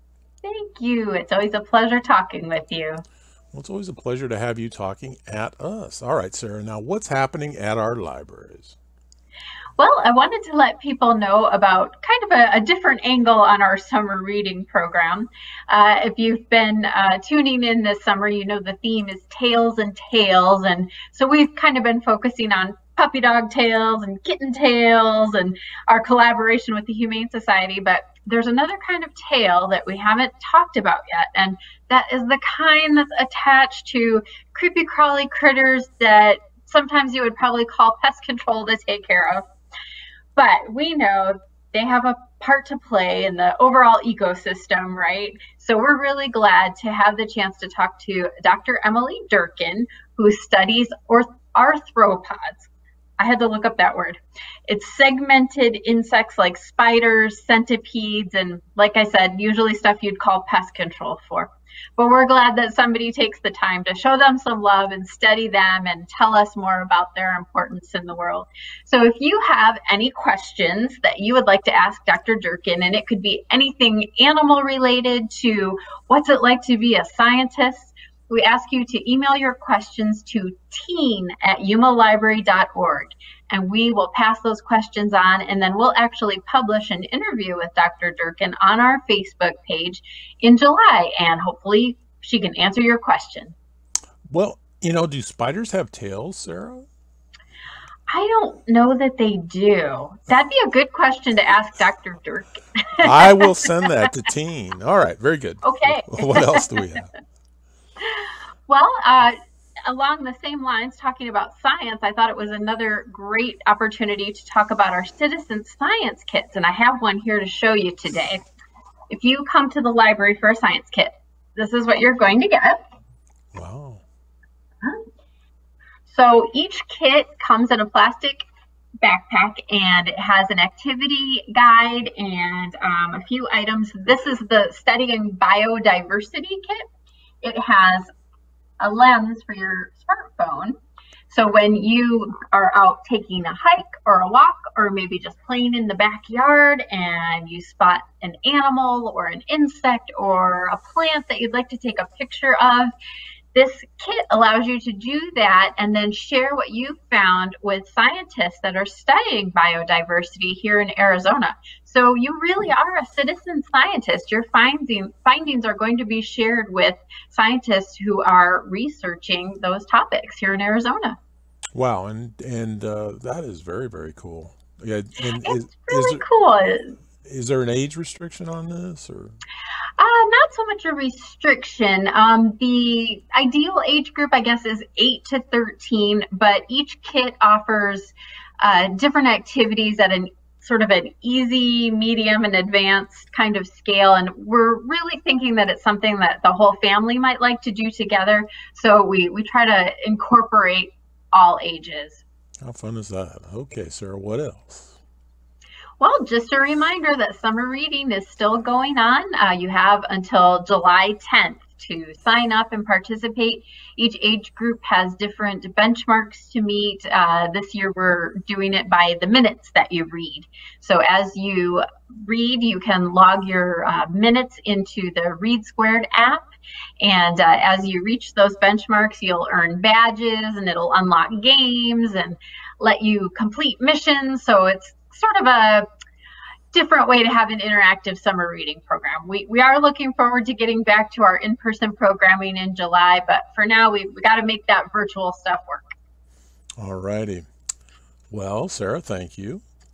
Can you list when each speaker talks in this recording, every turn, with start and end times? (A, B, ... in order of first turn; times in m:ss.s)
0:00.4-0:03.0 A
0:03.5-0:08.8 B
0:09.8-0:39.5 A
0:40.4-1:33.6 A
1:34.3-1:36.9 B
1:38.1-1:44.1 A
1:43.0-1:47.1 B
1:45.6-1:47.0 A
1:48.0-1:58.4 A
1:59.1-2:02.8 A
2:03.5-2:04.0 B
2:06.1-2:08.4 A
2:09.0-2:16.8 A
2:17.4-2:18.1 A
2:18.8-2:20.8 A
2:21.3-2:32.9 A
2:33.5-2:51.2 A
2:51.7-2:56.2 B
2:55.4-2:57.0 A
2:57.2-2:59.4 B
3:00.0-3:22.2 A
3:22.6-3:25.0 B
3:26.0-3:46.5 A
3:47.0-3:55.9 A
3:56.7-4:05.9 A
4:06.8-4:07.5 B
4:08.3-4:09.6 B